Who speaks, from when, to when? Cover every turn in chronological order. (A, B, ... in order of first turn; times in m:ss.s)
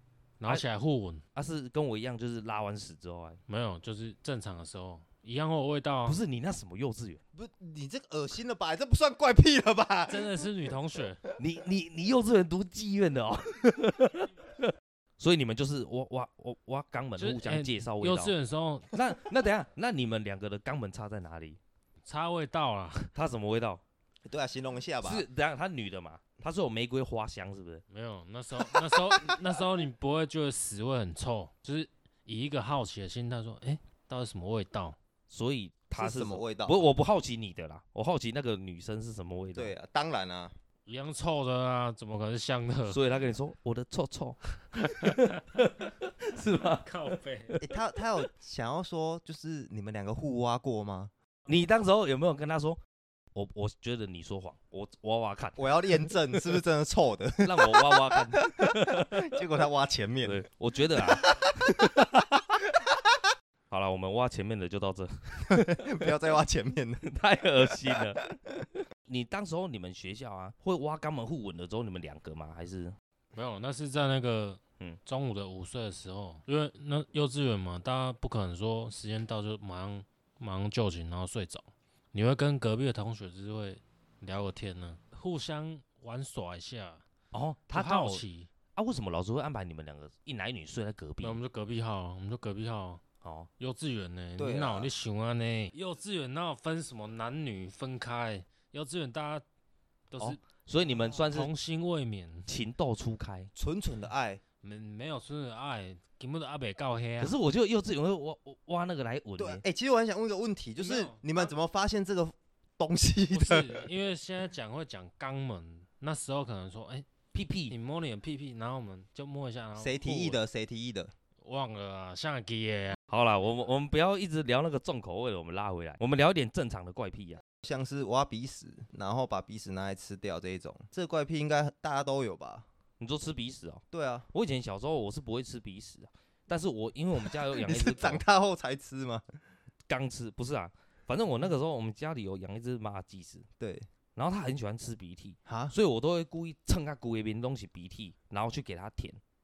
0:00.4-0:01.2 A
0:01.4-0:03.4 B
0:03.5-0:06.2 A
0:06.0-0:07.2 B
0:07.4-0:10.4 C
0:10.1-0:11.2 A
0:11.4-0:18.3 B
0:17.2-0:18.9 A
0:18.9-0:21.6 B
0:22.0-0:23.1 A
0:23.1-0:23.8 B
0:24.3-0:25.2 C
0:25.0-0:27.8 B
0:27.9-0:35.0 A
0:35.3-0:39.7 B
0:36.0-0:36.9 C
0:39.6-0:40.5 C
0:40.9-0:43.0 A
0:42.9-0:46.9 B
0:44.8-0:45.4 A
0:46.8-0:47.6 A
0:47.6-0:51.1 C
0:51.5-0:52.8 B
0:53.4-0:56.6 B
0:55.6-1:00.4 C
0:57.4-0:59.3 B
1:00.2-1:02.4 B
1:01.0-1:02.1 C
1:02.7-1:03.2 C
1:03.7-1:06.2 B
1:05.5-1:07.0 C
1:07.0-1:08.2 B
1:07.7-1:08.6 C
1:09.1-1:12.9 B
1:13.3-1:27.0 A
1:27.3-1:28.2 B
1:27.7-1:28.5 A
1:28.8-1:31.4 B
1:31.2-1:33.0 A
1:33.2-1:33.5 B
1:33.6-1:39.4 A
1:34.4-1:34.9 C
1:40.1-1:42.5 A
1:40.2-1:41.5 B
1:42.5-1:43.5 B
1:43.6-1:44.4 C
1:44.6-1:47.4 A
1:47.2-1:49.6 B
1:49.4-1:53.7 C
1:50.8-1:51.2 A
1:53.3-1:57.1 A
1:57.3-1:57.8 B
1:57.7-2:00.4 A
1:59.8-2:01.1 C
2:01.4-2:03.0 A
2:03.1-2:07.4 B
2:07.6-2:12.7 C
2:13.0-2:18.2 B
2:13.9-2:14.3 C
2:17.3-2:19.2 C
2:19.9-2:23.5 B
2:23.6-2:23.9 C
2:24.2-2:29.2 B
2:25.5-2:25.7 C